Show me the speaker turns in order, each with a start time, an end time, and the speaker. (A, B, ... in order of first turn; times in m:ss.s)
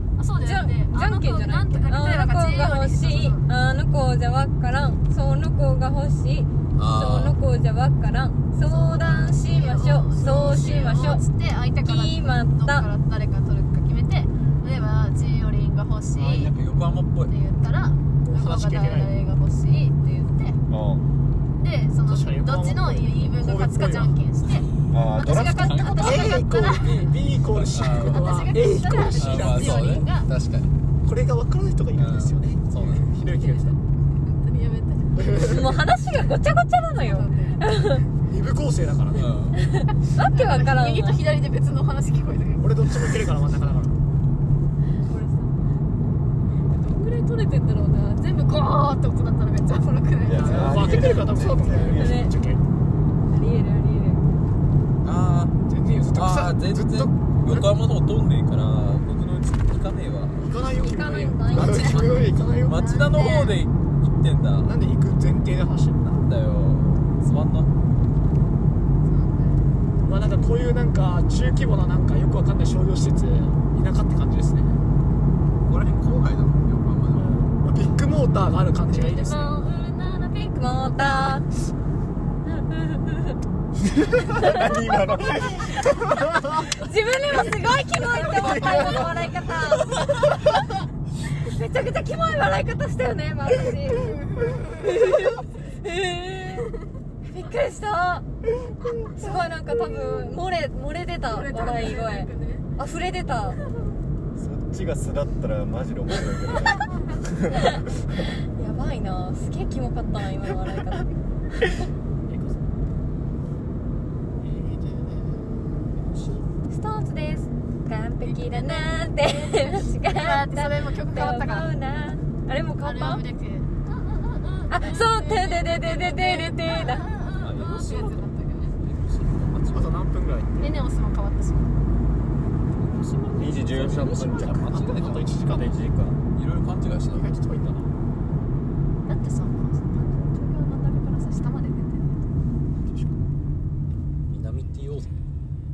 0:00.2-0:03.5 A
0:00.4-0:11.2 B
0:06.8-0:07.4 C
0:08.6-0:16.5 A
0:11.8-0:12.9 B
0:16.1-0:17.3 C
0:17.3-0:20.6 A
0:18.2-0:19.1 D
0:20.7-0:21.0 E
0:21.6-0:24.7 A
0:22.0-0:24.2 D
0:24.9-0:25.9 E
0:25.2-0:26.7 B
0:25.3-0:26.3 C
0:25.3-0:27.1 A
0:26.0-0:30.1 D
0:27.5-0:28.3 C
0:28.0-0:30.3 A
0:29.1-0:30.7 C
0:31.0-0:33.8 D
0:31.9-0:33.1 C
0:33.2-0:35.4 A
0:35.2-0:35.8 D
0:35.4-0:38.0 B
0:37.0-0:37.6 A
0:38.1-0:39.4 D
0:39.1-0:39.6 C
0:39.5-0:41.2 B
0:40.2-0:43.2 A
0:42.6-0:44.0 D
0:45.0-0:45.6 B
0:46.6-0:51.2 A
0:50.2-0:52.2 E
0:50.3-0:52.7 D
0:51.9-0:52.3 B
0:53.3-0:54.2 B
0:55.0-0:55.5 C
0:55.7-0:57.8 D
0:56.1-1:00.4 C
1:00.4-1:03.1 D
1:00.8-1:02.3 B
1:01.6-1:02.0 C
1:01.7-1:02.2 A
1:02.6-1:04.7 C
1:02.8-1:03.6 A
1:04.6-1:06.2 D
1:06.1-1:07.7 C
1:09.0-1:09.6 A
1:10.0-1:14.8 D
1:15.7-1:17.4 C
1:17.1-1:19.6 D
1:18.9-1:21.4 A
1:20.5-1:21.4 B
1:22.4-1:23.4 B
1:23.8-1:26.7 E
1:26.7-1:30.0 B
1:28.2-1:29.2 E
1:31.3-1:36.7 B
1:34.0-1:34.8 A
1:37.2-1:38.2 B
1:38.6-1:39.5 D
1:39.2-1:43.6 B
1:41.3-1:42.7 A
1:43.6-1:44.0 A
1:44.4-1:47.8 E
1:47.5-1:47.8 B
1:48.5-1:51.1 B
1:52.2-1:52.7 D
1:54.4-1:56.4 D
1:56.7-2:03.2 B
1:58.2-2:01.7 A
2:02.8-2:08.8 A
2:04.7-2:07.1 B
2:07.4-2:10.0 C
2:09.7-2:10.8 D
2:10.6-2:11.7 A
2:12.8-2:15.4 C
2:13.3-2:14.7 E
2:14.4-2:15.8 D
2:15.4-2:16.2 E
2:16.3-2:17.3 C
2:17.1-2:17.9 D
2:19.0-2:22.2 A
2:22.9-2:23.3 D
2:24.3-2:25.2 C